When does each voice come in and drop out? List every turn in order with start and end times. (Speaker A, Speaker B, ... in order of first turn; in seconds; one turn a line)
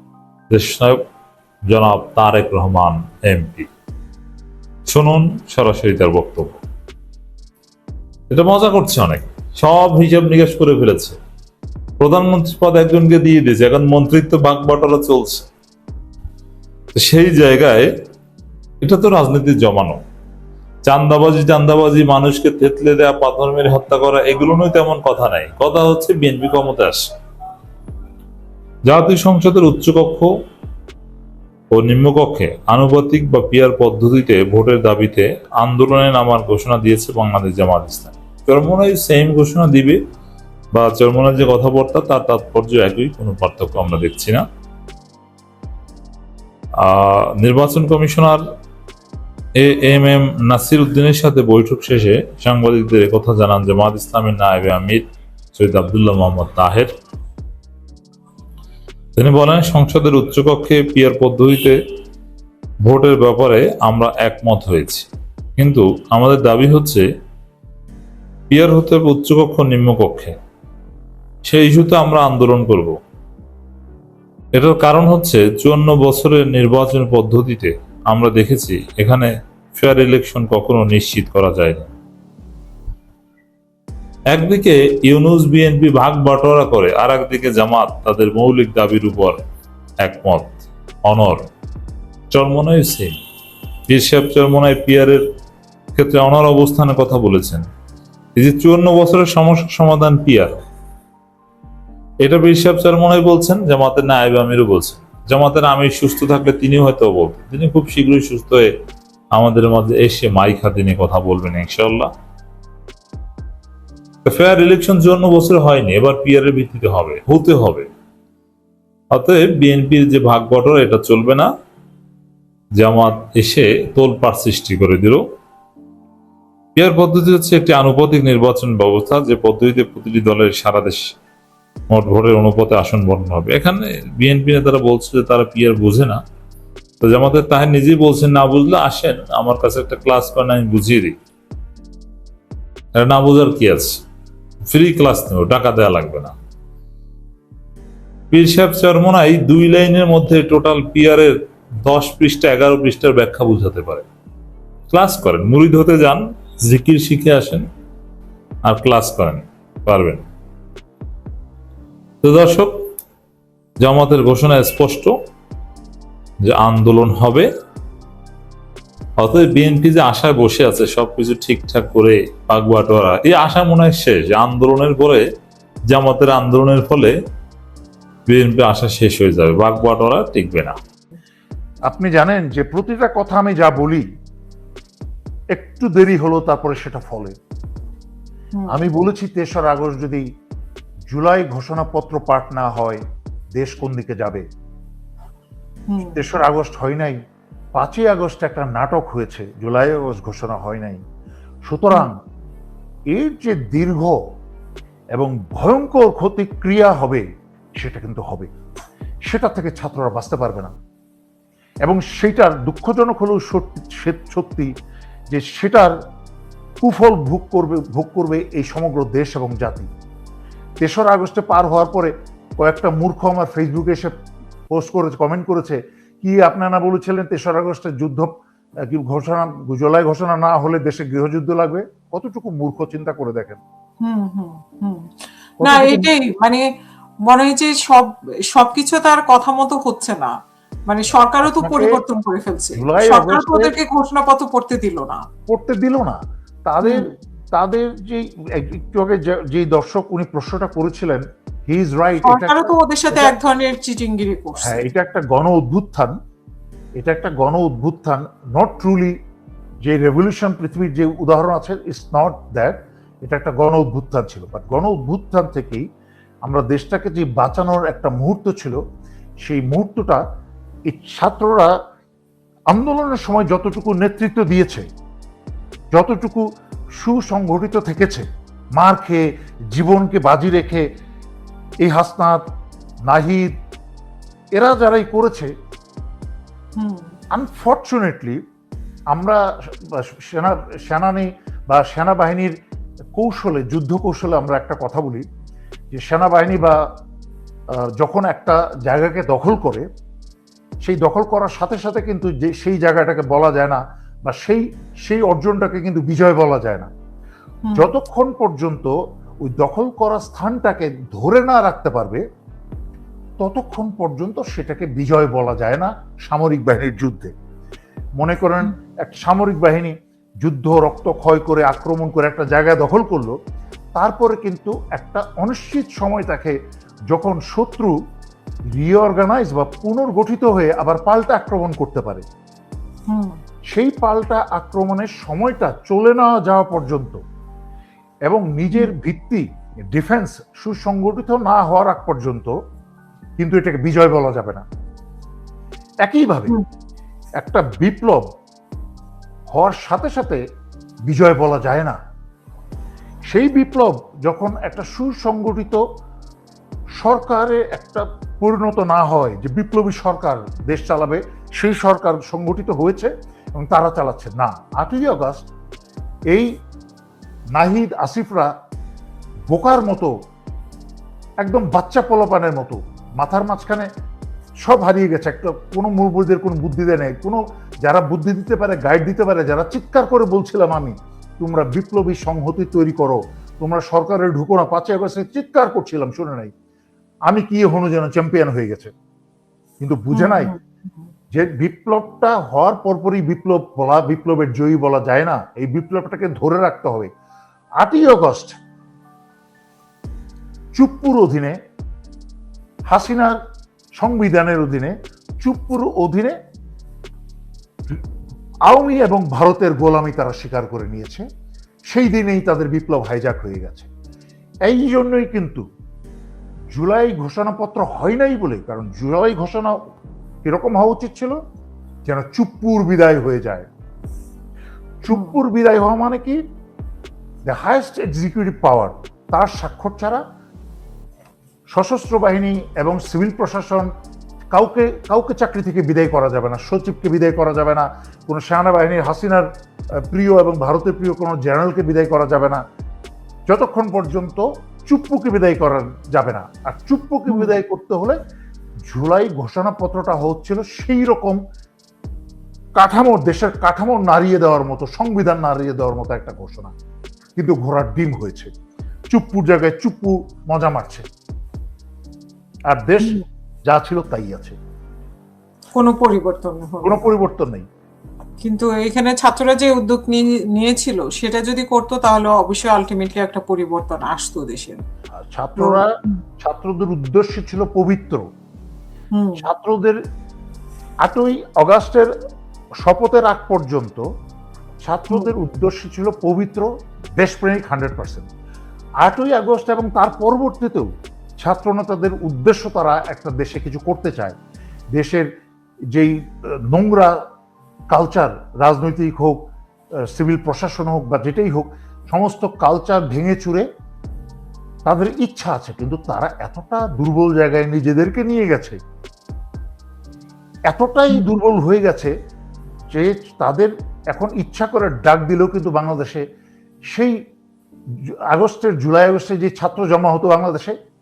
Speaker A: 0.5-1.0
Speaker A: 1.7-3.7
Speaker A: 4.9-6.6
Speaker A: 8.3-11.2
Speaker A: 12.0-15.5
Speaker A: 16.9-17.9
Speaker A: 18.8-20.0
Speaker A: 20.9-27.1
Speaker A: 28.9-30.3
Speaker A: 31.7-40.0
Speaker A: 40.7-44.5
Speaker A: 46.8-48.5
Speaker A: 49.6-55.0
Speaker A: 55.5-56.9
Speaker A: 59.2-61.8
Speaker A: 62.8-67.0
Speaker A: 68.5-70.4
Speaker A: 71.5-73.0
Speaker A: 74.5-81.9
Speaker A: 84.3-89.4
Speaker A: 90.0-91.5
Speaker A: 92.3-93.2
Speaker A: 93.9-95.2
Speaker A: 96.0-97.7
Speaker A: 98.4-100.6
Speaker A: 102.2-108.7
Speaker A: 109.3-112.1
Speaker A: 114.2-117.9
Speaker A: 119.1-121.5
Speaker A: 122.8-125.2
Speaker A: 126.8-131.0
Speaker A: 131.9-136.2
Speaker A: 137.0-141.2
Speaker A: 142.9-144.0
Speaker A: 144.7-146.3
Speaker A: 148.3-154.1
Speaker A: 154.9-157.7
Speaker A: 158.6-160.2
Speaker A: 162.2-162.8
Speaker A: 163.8-165.2
Speaker A: 166.4-167.5
Speaker A: 169.2-175.2
Speaker A: 175.9-177.2
Speaker A: 178.3-180.8
Speaker B: 181.9-184.0
Speaker B: 185.5-187.3
Speaker B: 188.7-190.2
Speaker B: 191.1-193.0
Speaker B: 193.6-194.4
Speaker C: 195.9-196.2
Speaker B: 196.0-197.2
Speaker B: 197.8-201.0
Speaker B: 201.7-202.2
Speaker B: 203.1-204.2
Speaker B: 205.2-207.2
Speaker B: 207.8-208.5
Speaker B: 209.3-210.7
Speaker B: 211.8-214.7
Speaker B: 215.3-215.9
Speaker B: 216.8-219.9
Speaker B: 220.8-224.1
Speaker B: 224.7-228.3
Speaker B: 228.9-233.6
Speaker C: 234.0-235.1
Speaker B: 235.6-236.1
Speaker C: 235.6-236.6
Speaker C: 237.3-240.3
Speaker C: 240.9-245.2
Speaker B: 241.4-242.0
Speaker B: 242.8-243.8
Speaker B: 245.5-253.3
Speaker C: 246.8-247.1
Speaker C: 252.2-254.9
Speaker B: 254.6-256.1
Speaker B: 257.0-259.1
Speaker B: 259.8-265.8
Speaker B: 266.4-268.8
Speaker B: 269.4-270.2
Speaker B: 270.9-271.7
Speaker B: 272.7-274.9
Speaker B: 275.9-276.4
Speaker B: 277.0-278.2
Speaker B: 278.8-280.8
Speaker B: 281.8-282.4
Speaker B: 283.1-283.5
Speaker B: 284.6-285.5
Speaker C: 286.8-287.1
Speaker B: 287.3-288.4
Speaker B: 289.1-292.5
Speaker B: 293.2-295.2
Speaker B: 295.9-296.8
Speaker B: 298.0-299.8
Speaker B: 300.8-306.9
Speaker C: 307.6-307.9
Speaker B: 307.8-308.9
Speaker B: 309.4-312.2
Speaker B: 313.4-317.3
Speaker B: 318.2-323.3
Speaker B: 324.0-326.5
Speaker B: 327.1-327.9
Speaker B: 328.7-332.2
Speaker C: 333.1-333.4
Speaker B: 333.7-337.2
Speaker B: 338.3-342.5
Speaker B: 343.4-344.6
Speaker B: 346.1-346.5
Speaker B: 347.4-348.2
Speaker B: 349.5-350.4
Speaker B: 351.1-352.0
Speaker B: 353.3-355.8
Speaker B: 357.0-365.4
Speaker B: 367.6-368.5
Speaker B: 369.5-370.1
Speaker B: 371.4-373.9
Speaker B: 374.6-386.5
Speaker B: 387.3-388.9
Speaker B: 389.8-390.5
Speaker C: 390.1-390.6
Speaker B: 391.3-397.1
Speaker B: 397.8-398.6
Speaker B: 400.8-401.6
Speaker B: 402.9-403.4
Speaker B: 404.0-406.4
Speaker B: 408.7-411.2
Speaker B: 411.9-413.9
Speaker B: 414.7-415.6
Speaker B: 416.7-419.8
Speaker B: 420.4-421.4
Speaker B: 422.1-423.7
Speaker B: 425.0-426.4
Speaker C: 425.1-425.4
Speaker B: 427.5-430.2
Speaker B: 431.7-433.9
Speaker B: 434.5-439.5
Speaker B: 440.1-442.6
Speaker B: 443.5-448.2
Speaker B: 448.9-451.4
Speaker B: 452.8-456.7
Speaker B: 457.4-458.5
Speaker B: 459.1-461.0
Speaker B: 462.7-464.6
Speaker C: 465.8-467.1
Speaker B: 466.8-467.6
Speaker C: 468.4-474.8
Speaker B: 475.2-478.2
Speaker C: 475.6-476.2
Speaker C: 479.1-479.4
Speaker B: 479.4-480.0
Speaker B: 481.0-482.1
Speaker B: 482.8-484.0
Speaker B: 484.8-486.7
Speaker B: 487.2-488.3
Speaker B: 489.0-490.9
Speaker B: 491.4-494.4
Speaker B: 494.9-495.3
Speaker B: 495.9-497.2
Speaker B: 497.9-499.4
Speaker B: 500.1-503.6
Speaker B: 504.9-508.8
Speaker B: 510.7-512.1
Speaker B: 512.9-516.2
Speaker B: 518.3-520.7